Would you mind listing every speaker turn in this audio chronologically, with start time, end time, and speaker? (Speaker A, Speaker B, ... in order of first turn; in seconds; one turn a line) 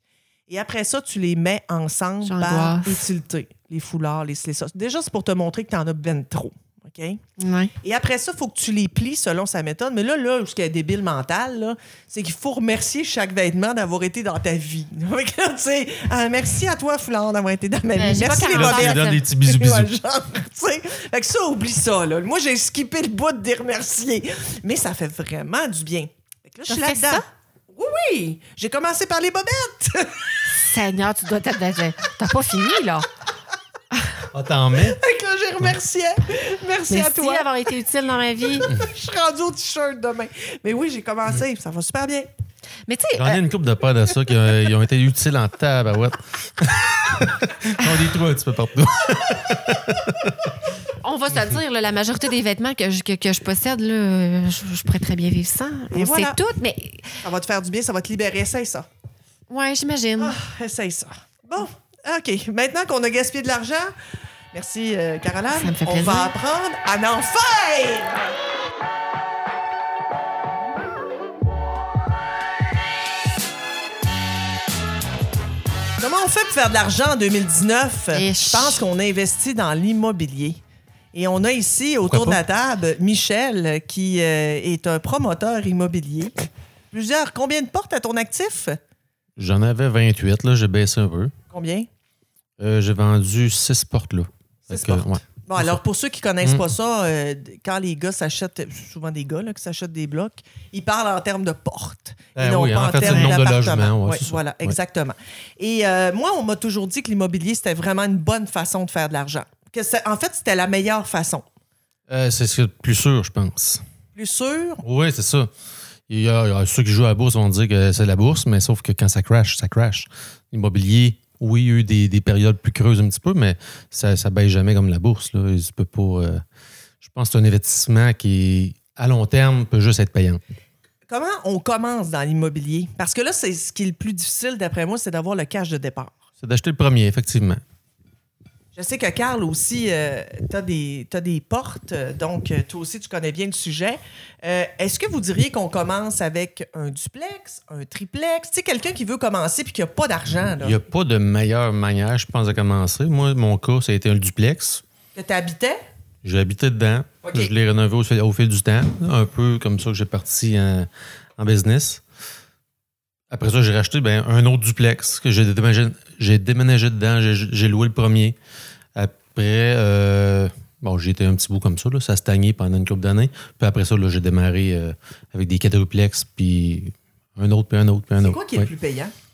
Speaker A: 0.5-7.2
Speaker B: 2.2-3.0
Speaker B: 7.4-7.7
Speaker A: 7.8-30.3
Speaker B: 17.9-19.2
Speaker C: 18.4-19.9
Speaker B: 26.7-27.2
Speaker B: 30.5-33.1
Speaker C: 34.3-35.0
Speaker A: 34.8-37.5
Speaker B: 36.9-38.7
Speaker A: 38.7-42.3
Speaker B: 42.9-43.4
Speaker C: 43.2-50.5
Speaker B: 51.0-57.2
Speaker A: 55.9-56.4
Speaker A: 57.2-58.9
Speaker B: 59.5-60.4
Speaker A: 60.2-63.9
Speaker A: 64.5-68.4
Speaker B: 65.5-66.3
Speaker A: 76.0-80.6
Speaker B: 78.1-78.8
Speaker A: 81.1-88.8
Speaker C: 82.1-82.4
Speaker C: 89.4-91.3
Speaker A: 91.5-91.9
Speaker C: 92.6-95.8
Speaker A: 94.7-111.5
Speaker C: 102.4-104.8
Speaker C: 112.1-113.8
Speaker A: 114.2-114.8
Speaker C: 114.8-115.5
Speaker C: 116.1-126.4
Speaker C: 127.0-130.4
Speaker A: 131.1-136.2
Speaker C: 136.4-137.6
Speaker A: 138.8-150.8
Speaker C: 150.6-154.8
Speaker A: 155.2-155.8
Speaker C: 156.2-162.0
Speaker A: 157.2-157.5
Speaker C: 163.3-168.4
Speaker C: 168.9-178.7
Speaker A: 178.2-179.1